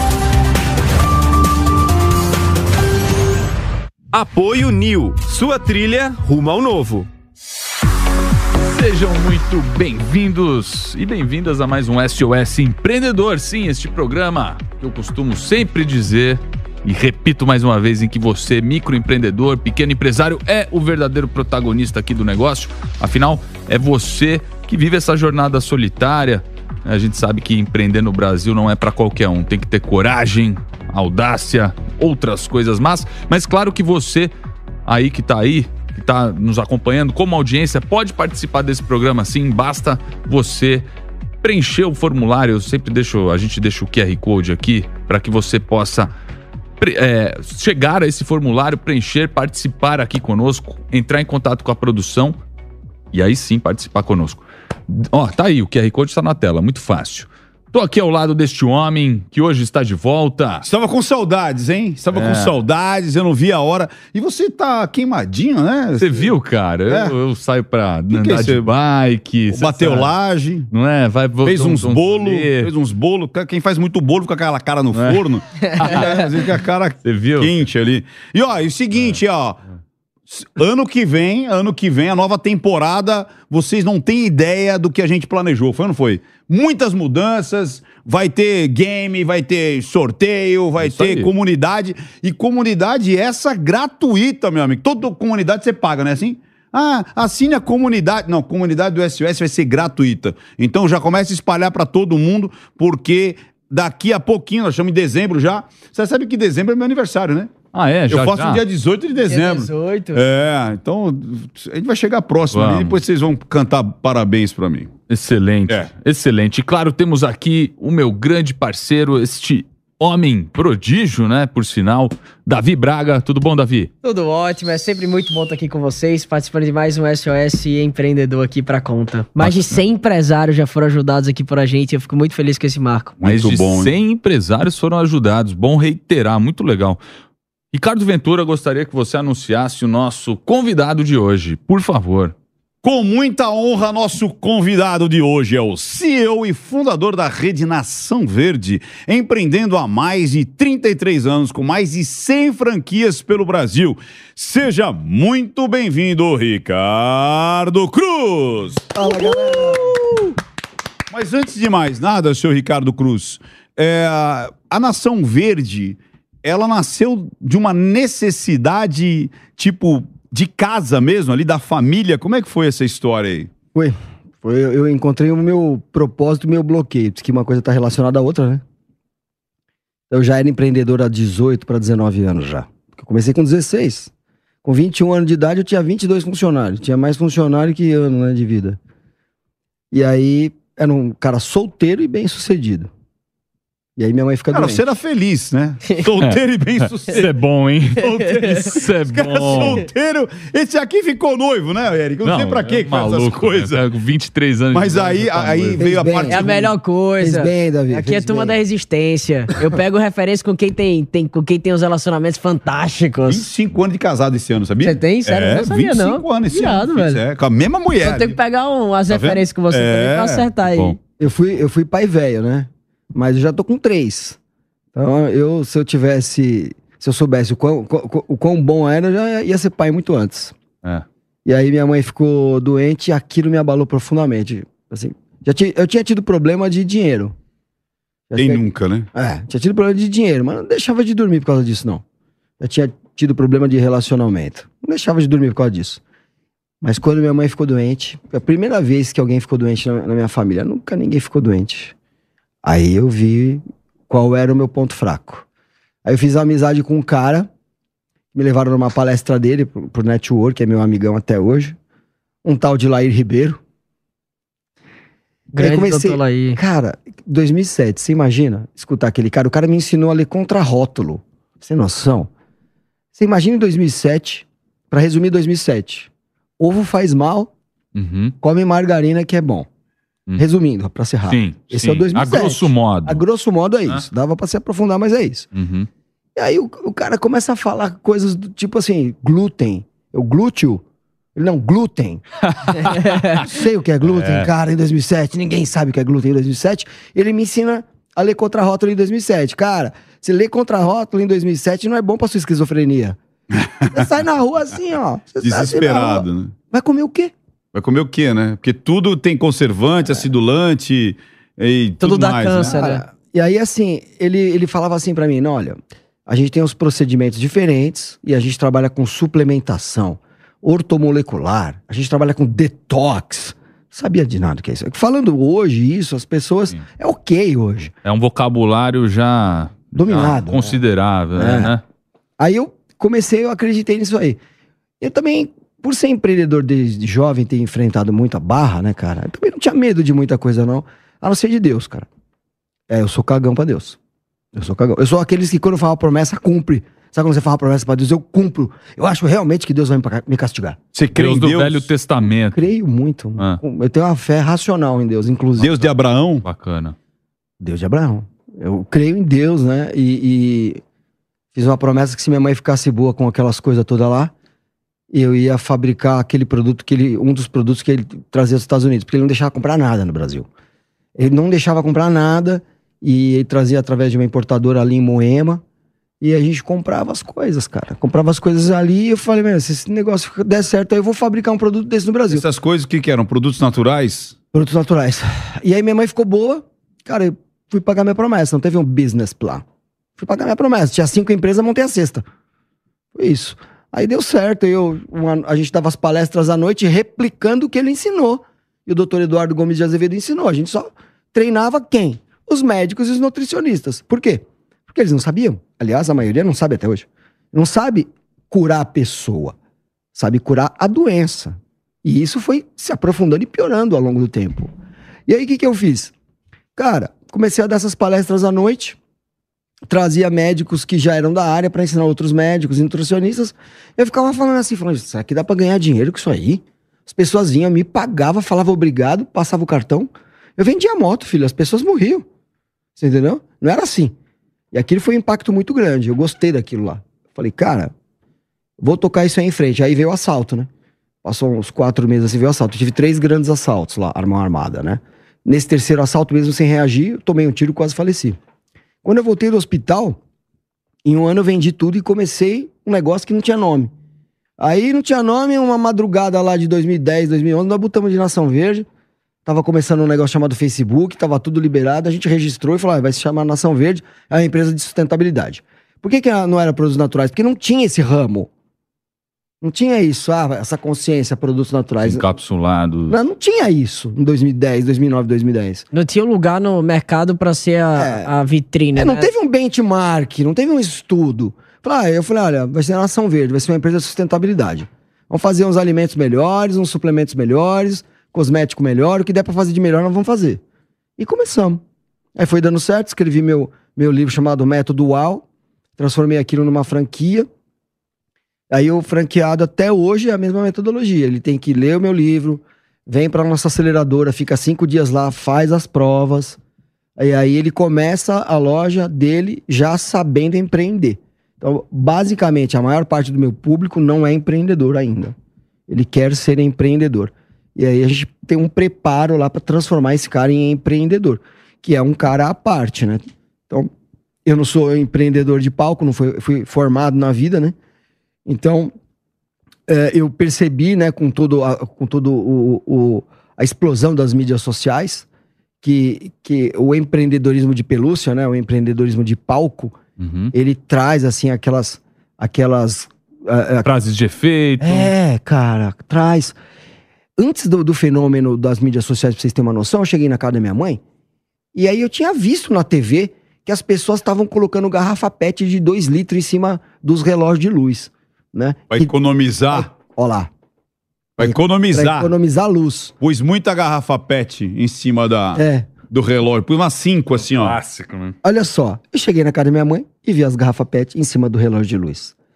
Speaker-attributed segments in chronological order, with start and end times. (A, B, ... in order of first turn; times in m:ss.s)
0:04.1-0:07.1 A
0:08.7-0:34.3 B
0:34.8-0:40.8 B
0:41.4-0:46.1 B
0:46.8-0:52.4 B
0:53.1-1:00.6 B
1:00.6-1:06.3 C
1:02.1-1:02.5 B
1:06.0-1:10.1 B
1:06.9-1:07.1 C
1:08.1-1:08.7 C
1:09.5-1:10.7 C
1:10.7-1:12.7 B
1:11.4-1:19.6 C
1:14.9-1:15.2 B
1:15.6-1:15.9 D
1:15.7-1:16.4 B
1:17.0-1:17.6 B
1:18.9-1:19.2 B
1:20.3-1:47.5 C
1:30.8-1:31.3 B
1:47.7-1:48.6 B
1:48.1-1:54.9 C
1:49.2-1:50.2 D
1:52.5-1:53.0 B
1:55.1-2:03.9 B
2:04.0-2:13.1 D
2:09.4-2:09.8 B
2:13.2-2:13.9 C
2:13.2-2:17.0 B
2:17.7-2:22.3 B
2:22.8-2:39.7 C
2:38.9-2:40.0 E
2:41.1-2:53.5 C
2:53.7-2:58.6 E
3:00.1-3:04.1 E
3:04.6-3:08.8 E
3:09.9-3:12.9 E
3:14.0-3:14.8 E
3:14.5-3:17.3 C
3:16.2-3:19.8 B
3:17.9-3:23.8 C
3:22.2-3:26.1 B
3:24.7-3:26.7 C
3:25.8-3:26.4 E
3:26.3-3:33.4 D
3:27.2-3:28.6 E
3:33.3-3:38.4 C
3:34.8-3:37.2 D
3:38.0-3:41.0 D
3:39.1-3:40.5 C
3:41.2-3:44.4 E
3:44.9-3:50.6 E
3:51.4-3:57.3 E
3:58.3-3:58.6 E
3:58.4-3:59.1 C
3:59.1-4:02.0 E
4:02.6-4:06.0 E
4:06.8-4:11.9 E
4:12.6-4:15.4 E
4:16.0-4:17.5 E
4:18.3-4:21.8 E
4:22.4-4:23.6 E
4:25.5-4:26.6 D
4:25.6-4:32.3 E
4:33.1-4:37.5 E
4:37.9-4:38.3 B
4:38.4-4:39.7 E
4:40.4-4:45.5 E
4:41.2-4:43.2 B
4:45.5-4:45.9 B
4:46.4-4:50.8 E
4:51.3-5:03.2 E
4:52.4-4:53.4 B
4:54.1-4:54.5 B
5:03.5-5:04.0 C
5:03.9-5:07.3 E
5:05.4-5:06.5 C
5:07.7-5:12.8 C
5:12.0-5:13.0 D
5:12.7-5:27.9 E
5:28.0-5:31.8 B
5:29.9-5:30.8 E
5:31.3-5:31.7 E
5:32.4-5:34.4 E
5:35.0-5:42.1 E
5:42.9-5:44.0 E
5:44.5-5:50.8 E
5:50.9-5:51.9 C
5:51.1-5:52.6 B
5:52.5-5:55.7 E
5:55.6-5:56.4 C
5:56.4-5:56.9 B
5:57.6-6:00.8 E
6:01.5-6:04.3 E
6:05.1-6:10.5 E
6:11.2-6:15.6 E
6:16.2-6:22.4 E
6:22.3-6:24.4 C
6:24.5-6:29.6 E
6:30.2-6:32.2 E
6:33.1-6:49.5 E
6:50.1-6:54.7 E
6:55.3-6:56.1 E
6:56.8-6:59.0 E
6:59.9-7:12.2 E
7:13.0-7:14.1 E
7:14.7-7:17.9 E
7:18.8-7:20.7 E
7:21.2-7:28.4 E
7:29.0-7:30.2 E
7:31.0-7:33.9 E
7:34.6-7:38.9 E
7:39.4-7:48.5 E
7:49.6-7:52.2 E
7:52.0-7:53.2 B
7:53.1-7:55.8 E
7:55.9-7:59.3 D
7:58.0-7:58.3 E
7:59.0-8:10.6 E
8:11.2-8:11.8 E
8:12.4-8:15.4 E
8:16.0-8:17.5 E
8:18.7-8:26.6 E
8:27.2-8:35.3 E
8:35.9-8:43.9 E
8:44.4-8:47.8 E
8:48.4-8:48.9 E
8:49.9-8:55.2 E
8:55.8-9:00.0 E
9:00.2-9:00.5 B
9:00.5-9:03.9 E
9:03.8-9:05.1 B
9:04.8-9:06.6 E
9:07.4-9:11.0 E
9:11.7-9:19.1 E
9:18.9-9:19.9 C
9:19.7-9:20.5 E
9:21.4-9:22.3 C
9:21.4-9:23.1 E
9:23.2-9:27.8 C
9:25.5-9:25.9 E
9:27.4-9:28.3 B
9:28.4-9:32.3 E